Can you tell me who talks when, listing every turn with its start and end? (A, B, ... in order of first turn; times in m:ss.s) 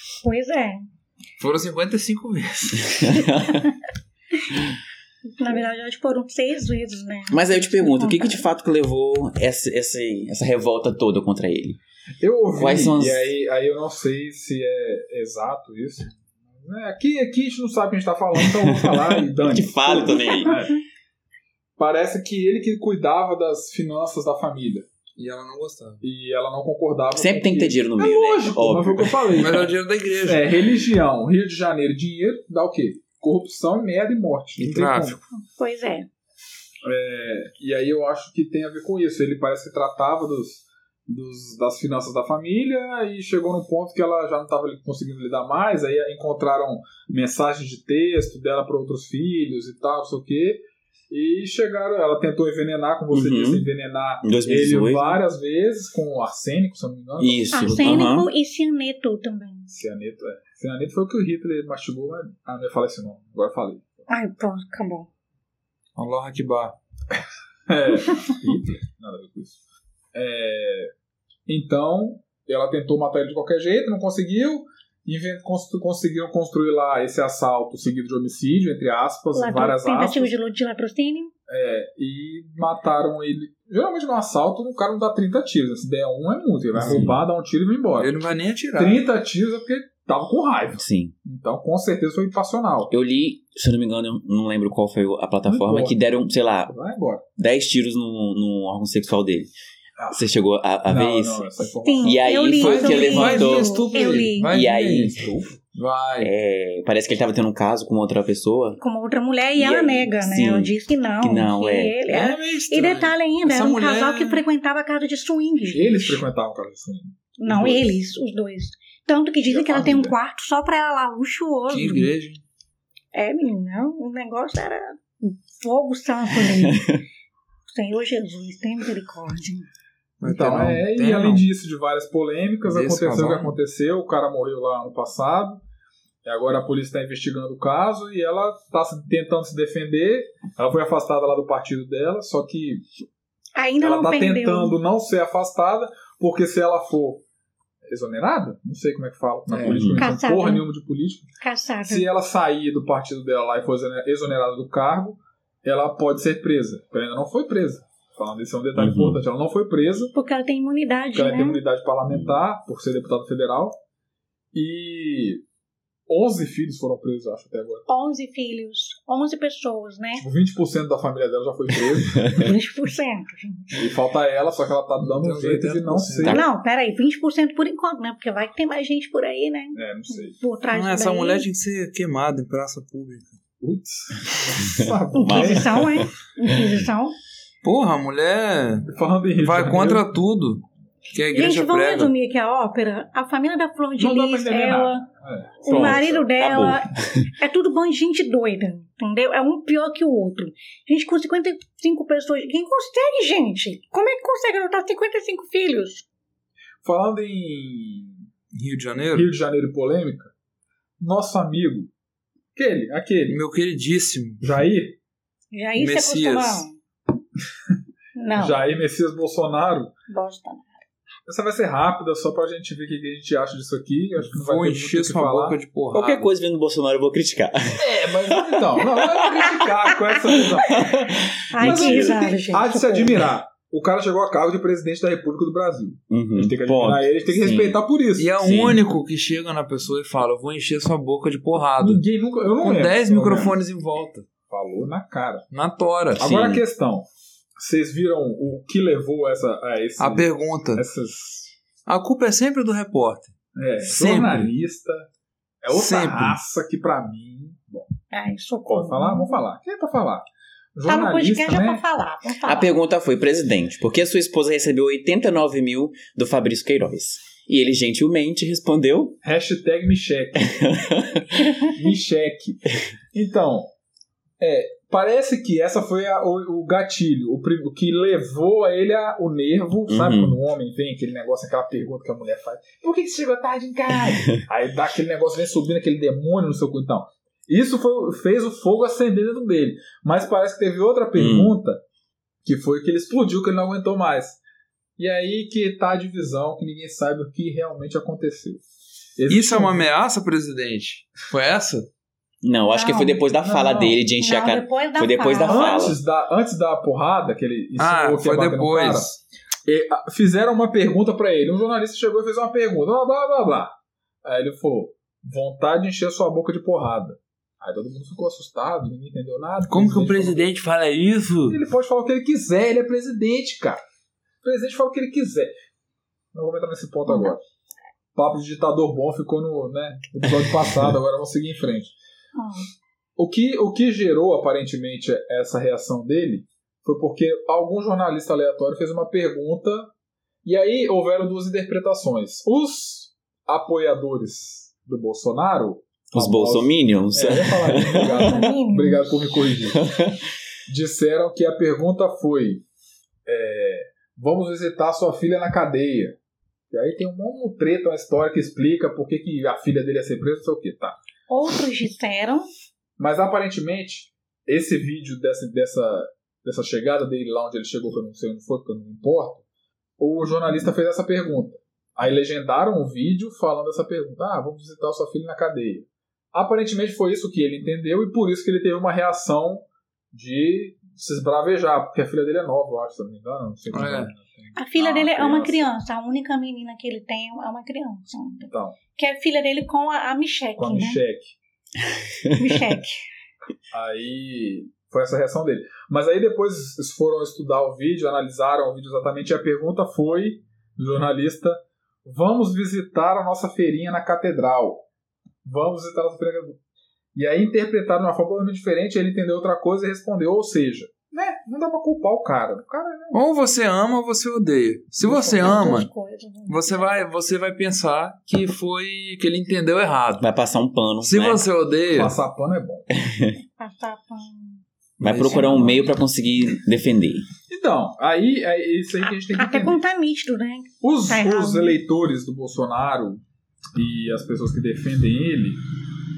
0:00.2-0:00.9 A
0:01.4-0:03.2 B
0:02.8-0:03.7 C
0:05.3-0:08.4 A
0:07.3-0:11.8 C
0:12.2-0:20.8 D
0:12.6-0:13.3 C
0:18.4-0:20.6 C
0:21.8-0:24.9 D
0:25.2-0:26.0 B
0:26.0-0:35.2 D
0:27.1-0:29.4 C
0:29.4-0:30.5 B
0:34.6-0:35.2 B
0:35.4-0:36.1 A
0:36.8-0:58.1 D
0:53.1-0:53.6 C
0:54.2-0:55.2 C
0:57.2-0:58.3 C
0:57.5-0:59.7 A
0:59.7-1:03.9 D
1:04.1-1:05.1 A
1:06.0-1:06.8 B
1:07.7-1:09.6 D
1:10.1-1:10.9 D
1:11.5-1:20.3 D
1:19.3-1:21.3 A
1:21.5-1:28.1 D
1:26.8-1:27.2 C
1:26.8-1:27.1 B
1:28.0-1:29.0 B
1:28.8-1:32.9 D
1:30.8-1:31.1 C
1:32.9-1:36.7 C
1:35.4-1:36.0 D
1:36.7-1:37.2 D
1:37.4-1:39.5 C
1:40.1-1:41.5 C
1:40.8-1:42.3 D
1:41.8-1:44.5 A
1:42.0-1:45.3 C
1:42.6-1:45.2 B
1:45.2-1:45.6 D
1:45.7-1:46.3 B
1:46.2-1:48.8 C
1:48.8-1:56.2 A
1:49.6-1:52.0 C
1:52.1-1:54.4 B
1:55.7-1:58.0 D
1:57.4-2:02.1 A
1:59.5-2:00.2 D
2:01.7-2:02.4 B
2:03.1-2:06.9 A
2:06.5-2:07.0 C
2:07.7-2:09.7 A
2:10.2-2:11.4 B
2:10.2-2:15.6 D
2:12.6-2:13.5 B
2:16.2-2:22.8 D
2:23.6-2:24.8 A
2:23.8-2:27.2 D
2:27.8-2:31.3 D
2:29.5-2:29.9 B
2:29.7-2:30.1 C
2:30.0-2:30.6 A
2:31.4-2:32.0 A
2:31.8-2:40.1 D
2:38.8-2:39.2 C
2:40.1-2:41.6 A
2:41.1-2:43.8 D
2:44.5-2:45.4 D
2:46.1-2:47.8 D
2:47.9-2:50.2 A
2:50.2-2:52.5 D
2:52.0-2:52.5 C
2:52.4-2:53.8 A
2:53.7-2:56.4 D
2:55.0-2:56.4 B
2:56.3-3:01.4 A
2:59.7-3:00.4 D
3:00.7-3:03.4 B
3:03.6-3:06.0 D
3:04.6-3:06.1 C
3:05.1-3:07.2 A
3:07.6-3:12.1 B
3:08.9-3:10.1 D
3:11.3-3:15.1 A
3:14.0-3:16.2 D
3:15.6-3:26.0 A
3:15.7-3:17.3 C
3:26.8-3:28.3 D
3:28.5-3:29.3 B
3:29.1-3:30.3 D
3:31.0-3:31.9 D
3:32.5-3:33.4 D
3:33.3-3:34.4 B
3:34.4-3:35.0 D
3:35.5-3:36.8 A
3:35.8-3:36.6 B
3:38.2-3:38.6 A
3:38.3-3:39.9 D
3:40.1-3:40.8 A
3:41.2-3:45.6 D
3:44.3-3:46.3 B
3:45.9-3:49.2 C
3:47.8-3:58.4 D
3:50.7-3:52.2 C
3:51.5-3:53.3 A
3:56.1-3:57.8 C
3:58.2-4:02.0 B
3:58.4-3:58.8 C
4:01.8-4:03.6 D
4:02.6-4:04.3 B
4:04.5-4:05.4 D
4:05.5-4:06.3 B
4:06.2-4:07.1 D
4:06.2-4:06.6 C
4:07.6-4:11.5 D
4:10.0-4:10.8 B
4:11.9-4:14.5 B
4:13.6-4:15.1 D
4:15.6-4:17.9 D
4:15.7-4:16.4 B
4:18.1-4:19.4 A
4:18.7-4:21.8 D
4:20.9-4:22.7 A
4:22.4-4:29.2 C
4:29.2-4:30.7 D
4:30.4-4:31.6 C
4:31.6-4:33.7 D
4:34.4-4:51.8 D
4:39.9-4:40.4 C
4:44.1-4:44.4 C
4:51.2-4:51.5 C
4:52.4-4:54.4 D
4:55.0-4:58.6 D
4:59.2-4:59.8 D
4:59.3-5:01.9 B
5:02.4-5:06.0 C
5:02.7-5:03.2 A
5:03.4-5:04.0 D
5:04.2-5:05.9 A
5:05.4-5:09.1 D
5:07.8-5:09.2 B
5:09.6-5:20.5 D
5:19.7-5:21.6 B
5:21.5-5:23.8 D
5:24.4-5:25.5 D
5:26.3-5:27.4 D
5:27.1-5:27.3 A
5:28.1-5:31.9 D
5:32.4-5:32.7 A
5:33.2-5:39.9 D
5:40.4-5:49.8 D
5:46.1-5:48.4 C
5:48.0-5:49.1 A
5:49.7-5:50.2 C
5:50.7-5:52.6 D
5:53.2-5:56.2 D
5:56.7-6:01.0 D
6:01.3-6:02.4 A
6:03.0-6:09.4 D
6:10.0-6:25.7 D
6:23.7-6:24.1 B
6:24.5-6:31.0 A
6:28.5-6:28.8 D
6:30.6-6:31.4 D
6:32.4-6:33.1 A
6:33.7-6:44.8 D
6:45.4-6:46.6 D
6:47.1-6:53.2 D
6:53.1-6:55.9 B
6:55.1-6:57.0 A
6:55.1-6:55.5 D
6:56.5-7:00.2 B
7:00.2-7:01.4 C
7:01.0-7:02.2 B
7:01.9-7:02.9 D
7:02.9-7:03.4 C
7:03.4-7:04.6 A
7:05.0-7:07.3 C
7:05.0-7:05.8 B
7:05.2-7:05.7 D
7:07.5-7:09.8 D
7:09.3-7:11.8 A
7:10.8-7:13.2 D
7:13.8-7:15.6 D